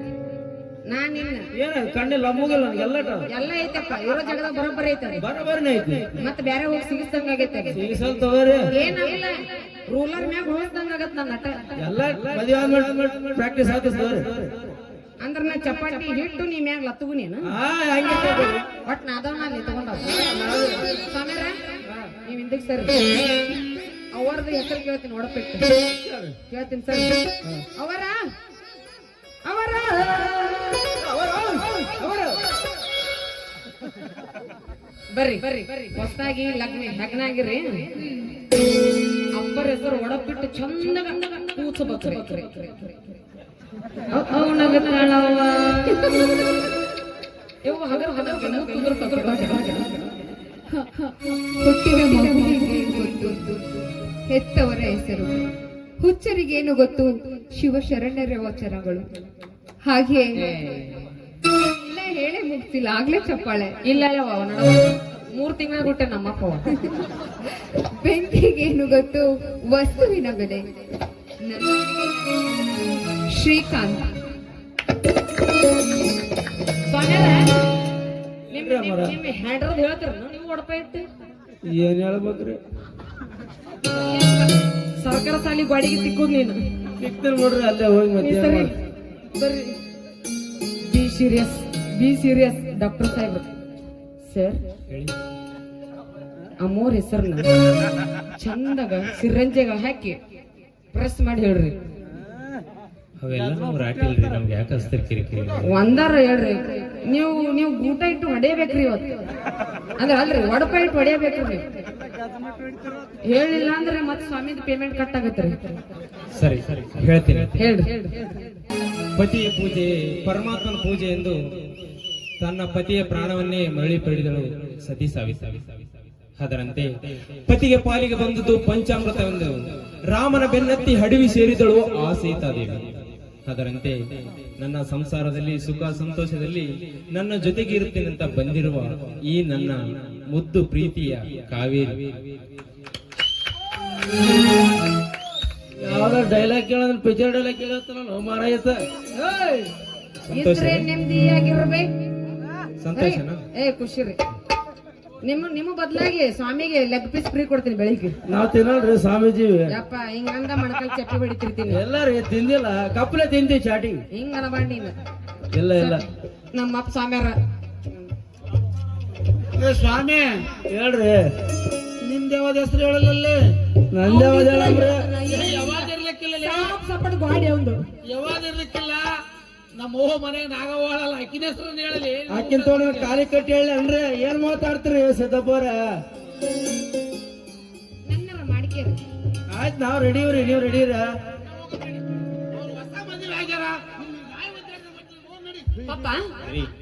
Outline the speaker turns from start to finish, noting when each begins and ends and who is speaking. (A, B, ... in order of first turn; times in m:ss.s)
0:00.8-0:01.5 A
0:01.5-0:03.3 B
0:03.3-0:05.2 A
0:05.2-0:06.1 B
0:06.2-0:07.8 A
0:07.7-0:08.7 B
0:08.7-0:11.7 A
0:11.8-0:14.5 B
0:15.2-0:17.5 A
0:17.5-0:18.6 B
0:18.8-0:20.2 A
0:20.2-0:20.8 B
0:21.0-0:23.1 A
0:24.1-0:25.7 A
0:26.0-0:26.3 B
0:26.5-0:27.2 A
0:27.7-0:28.2 A
0:29.4-0:30.9 A
0:31.0-0:32.4 B
0:35.1-0:38.0 A
0:39.3-0:43.0 A
0:44.1-0:46.4 A
0:47.6-0:50.0 A
0:51.5-0:55.4 C
0:52.2-0:52.4 A
0:56.0-0:59.1 C
0:59.8-1:00.4 C
1:00.4-1:01.0 A
1:01.8-1:03.8 C
1:03.8-1:06.7 A
1:06.9-1:10.6 C
1:11.4-1:11.8 C
1:13.3-1:14.2 C
1:16.8-1:17.6 A
1:18.5-1:21.0 A
1:18.5-1:19.2 B
1:21.6-1:22.6 B
1:23.9-1:26.6 A
1:27.0-1:28.7 B
1:28.2-1:28.7 A
1:29.3-1:29.8 A
1:30.8-1:33.4 A
1:34.2-1:34.6 A
1:36.6-1:37.5 A
1:38.3-1:40.2 A
1:40.9-1:41.7 A
1:43.2-1:45.7 D
1:45.6-1:49.2 A
1:50.0-1:51.6 A
1:53.2-1:55.8 A
1:56.3-1:57.7 D
1:57.5-1:58.2 A
1:59.2-2:01.4 D
2:02.4-2:05.8 D
2:06.4-2:06.9 D
2:07.5-2:09.5 D
2:10.1-2:12.8 D
2:13.4-2:14.0 D
2:14.6-2:22.3 D
2:25.8-2:28.8 B
2:29.1-2:29.7 A
2:30.3-2:30.9 D
2:30.3-2:31.9 A
2:32.8-2:33.4 D
2:32.9-2:34.2 A
2:35.2-2:38.2 A
2:38.3-2:39.7 B
2:39.7-2:41.8 A
2:41.7-2:44.0 B
2:44.1-2:45.0 A
2:45.6-2:46.0 B
2:45.7-2:47.4 A
2:49.6-2:50.5 E
2:50.6-2:51.3 B
2:52.0-2:53.5 E
2:53.9-2:55.2 B
2:54.0-2:55.8 A
2:55.3-2:56.7 E
2:56.4-2:57.8 A
2:58.0-2:59.2 E
2:59.7-3:02.9 E
3:02.3-3:05.8 B
3:08.0-3:09.0 A
3:09.5-3:11.1 B
3:12.5-3:15.7 E
3:15.8-3:16.3 A
3:16.4-3:16.7 D